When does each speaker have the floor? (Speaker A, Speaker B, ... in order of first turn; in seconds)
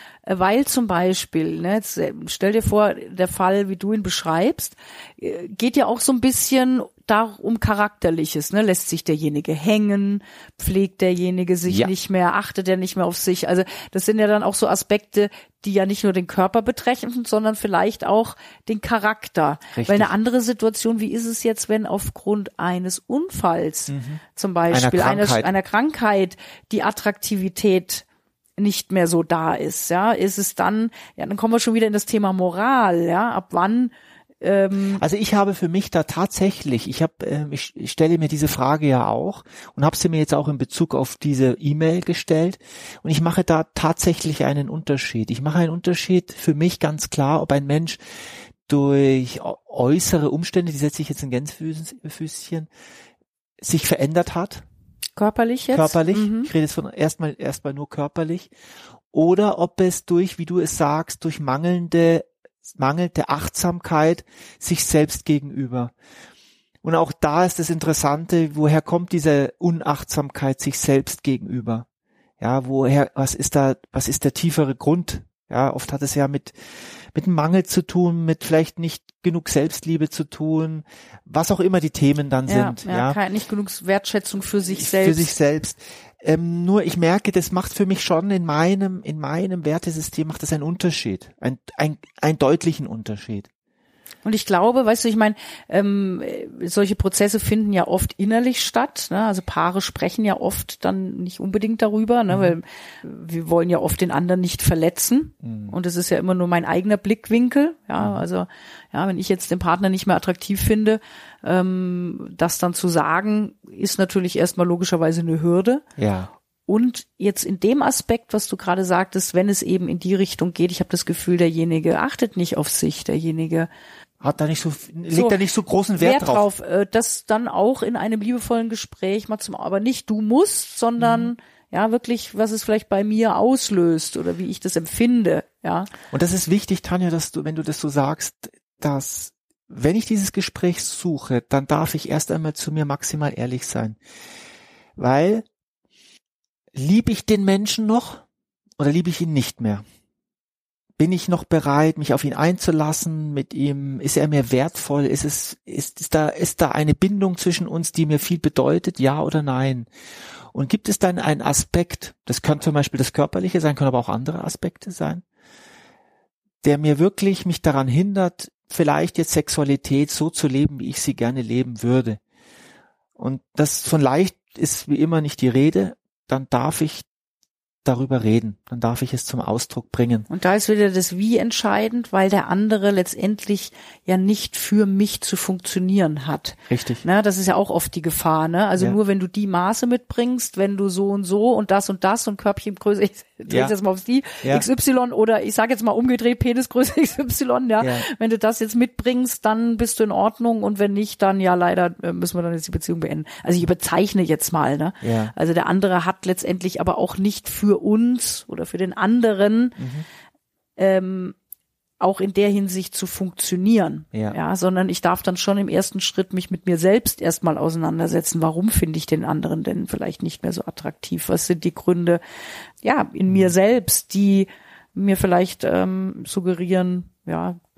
Speaker A: 0.2-28.1, 28.6-35.0, 55.2-56.5, 82.5-85.3, 94.2-115.8, 116.7-123.7, 125.1-125.4, 126.0-135.9, 180.3-209.8, 210.8-211.3, 212.0-222.2, 222.8-227.6
Speaker B: 11.7-11.9, 19.8-20.1, 23.9-25.5, 35.0-48.0, 48.7-52.7, 53.6-54.6, 55.7-58.5, 59.1-65.9, 66.8-71.8, 72.4-83.2, 84.7-93.5, 102.3-102.6, 105.4-105.8, 108.0-108.2, 116.0-116.3, 124.2-126.5, 131.0-131.3, 136.1-144.0, 145.0-145.4, 146.8-148.2, 148.8-149.8, 151.0-159.9, 160.5-165.2, 166.6-172.2, 173.2-177.1, 177.8-180.3, 186.7-187.1, 193.5-193.8, 197.8-198.1, 205.0-205.3, 209.8-210.1, 223.3-223.5